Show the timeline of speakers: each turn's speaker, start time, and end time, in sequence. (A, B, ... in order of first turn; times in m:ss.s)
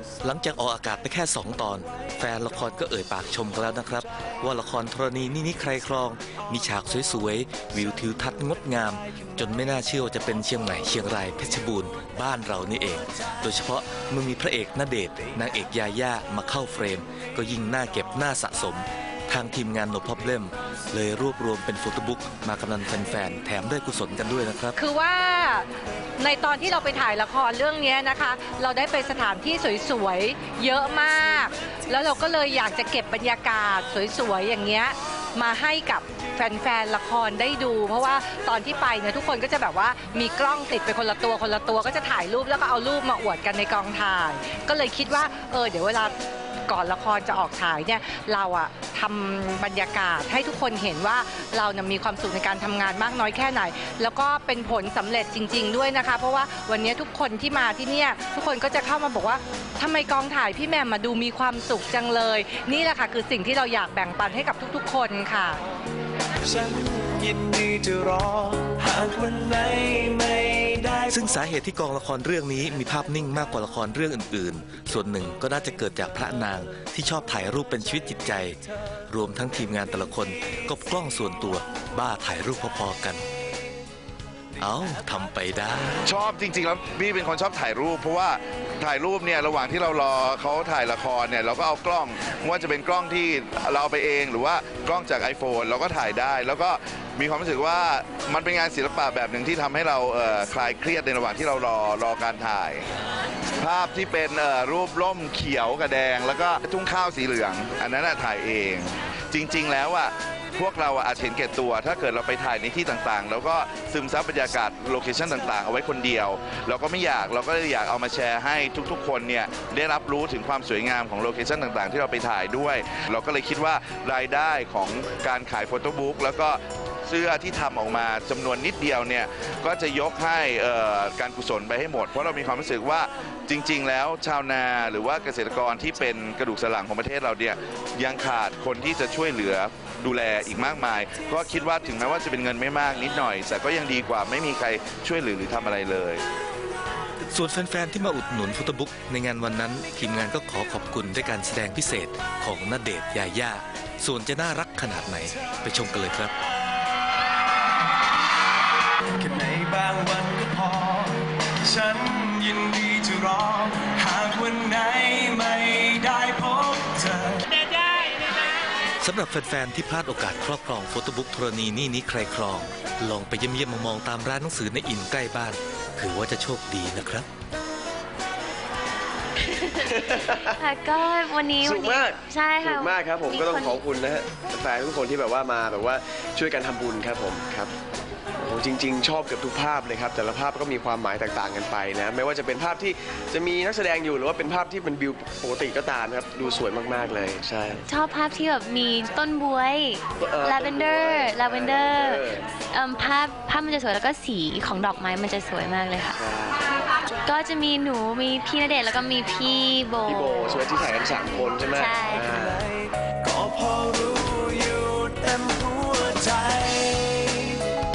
0:00.2-0:24.7 A
0:24.8-0:46.1 B
0:46.7-1:05.6 B
1:06.5-1:11.3 C
1:11.1-1:18.6 A
1:19.1-1:23.2 A
1:24.6-1:26.0 A
1:26.0-1:42.9 D
1:43.6-2:26.2 D
2:27.3-2:36.3 A
2:39.2-2:47.6 C
2:49.0-2:57.3 A
2:59.5-3:03.9 E
2:59.9-3:00.5 F
3:01.6-3:07.7 F
3:08.4-3:17.8 F
3:17.9-3:26.3 E
3:20.2-3:22.5 F
3:26.1-3:26.8 F
3:27.1-3:32.4 E
3:30.0-3:32.6 F
3:31.4-3:37.6 C